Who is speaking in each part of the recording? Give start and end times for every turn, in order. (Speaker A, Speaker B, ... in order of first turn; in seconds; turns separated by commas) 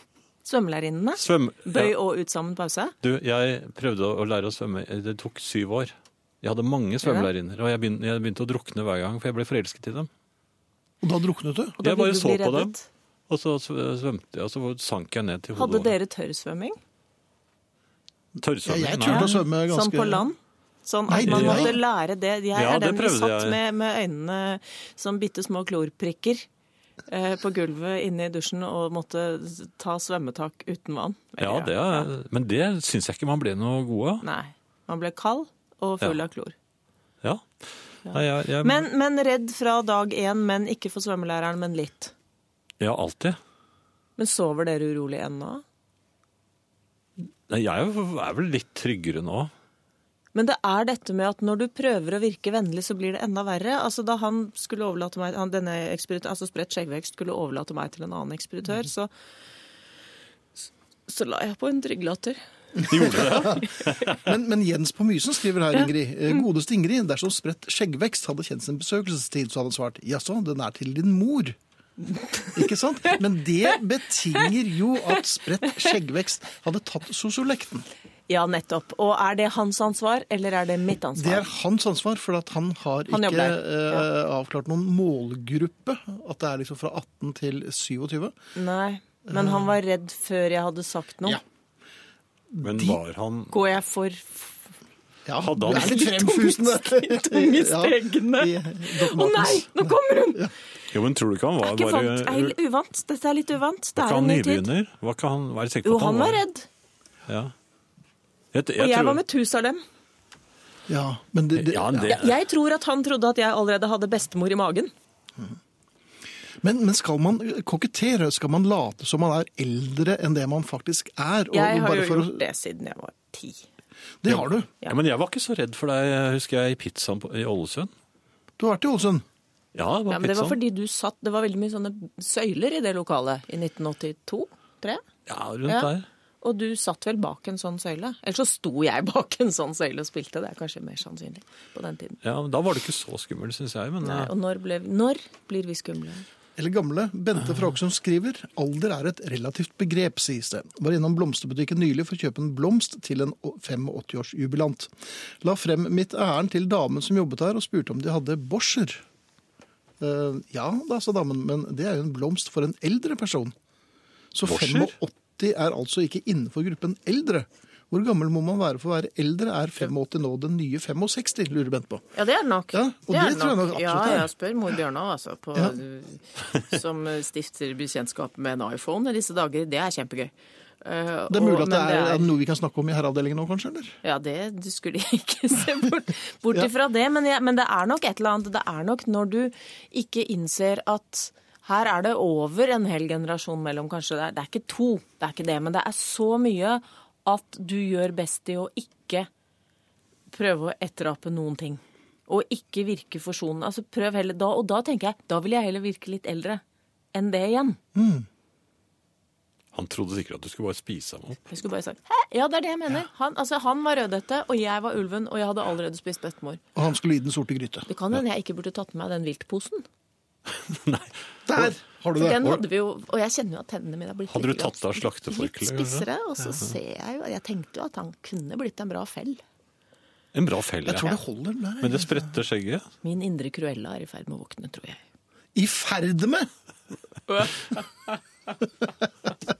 Speaker A: 0.4-2.9, Speaker B: 1.2-1.9, Speaker B: 3.0-10.1, Speaker A: 7.0-7.3, Speaker C: 11.0-11.8, Speaker A: 11.8-12.8, Speaker B: 11.8-12.7, Speaker B: 13.3-15.9, Speaker A: 15.6-16.8, Speaker B: 18.4-19.3, Speaker C: 18.6-20.2, Speaker A: 19.1-26.5, Speaker C: 21.1-21.8, Speaker B: 21.2-21.8, Speaker B: 22.5-23.6, Speaker A: 27.1-32.1, Speaker B: 31.4-34.2, Speaker A: 34.2-36.5, Speaker B: 37.2-38.9, Speaker A: 38.0-42.1, Speaker B: 42.8-43.4, Speaker A: 44.2-45.6, Speaker B: 47.5-49.5, Speaker A: 50.3-59.1, Speaker A: 61.1-62.4, Speaker C: 62.8-71.6, Speaker B: 62.9-64.2, Speaker A: 63.0-63.6, Speaker C: 72.5-77.9, Speaker A: 78.3-81.5, Speaker C: 81.2-88.3, Speaker A: 83.1-84.0, Speaker A: 88.5-91.4, Speaker C: 89.3-89.6, Speaker C: 92.5-93.0, Speaker B: 92.6-93.5, Speaker A: 93.5-94.6, Speaker C: 95.2-100.5, Speaker B: 95.4-95.9, Speaker A: 95.6-100.5, Speaker B: 100.9-102.5, Speaker A: 101.6-104.7, Speaker B: 104.0-106.4, Speaker A: 105.8-106.7, Speaker B: 107.3-107.5, Speaker B: 108.5-109.2, Speaker A: 108.8-109.8, Speaker C: 110.9-112.2, Speaker B: 111.5-112.3, Speaker A: 112.0-114.9, Speaker C: 116.6-122.4, Speaker A: 121.5-123.6, Speaker C: 124.2-124.7, Speaker B: 124.3-127.9, Speaker C: 128.6-129.2, Speaker B: 129.7-130.6, Speaker A: 130.1-135.0, Speaker B: 135.3-136.1, Speaker A: 136.4-142.2, Speaker B: 142.2-144.3, Speaker A: 144.0-146.2, Speaker C: 146.6-159.0, Speaker C: 160.0-163.5, Speaker C: 164.3-172.0, Speaker B: 164.4-164.9, Speaker A: 172.1-180.3, Speaker C: 172.7-174.3, Speaker A: 180.8-182.3, Speaker C: 181.3-183.9, Speaker A: 184.0-199.3, Speaker A: 200.3-206.6, Speaker A: 207.1-207.8, Speaker C: 207.9-208.2, Speaker B: 209.7-211.5, Speaker A: 211.5-216.6, Speaker C: 216.8-217.9, Speaker A: 217.9-219.8, Speaker B: 220.5-221.7, Speaker C: 221.4-222.4, Speaker A: 222.1-229.4, Speaker B: 224.3-226.1, Speaker B: 230.3-231.2, Speaker C: 230.8-232.3, Speaker B: 231.8-232.8, Speaker A: 233.0-235.0, Speaker C: 235.5-236.5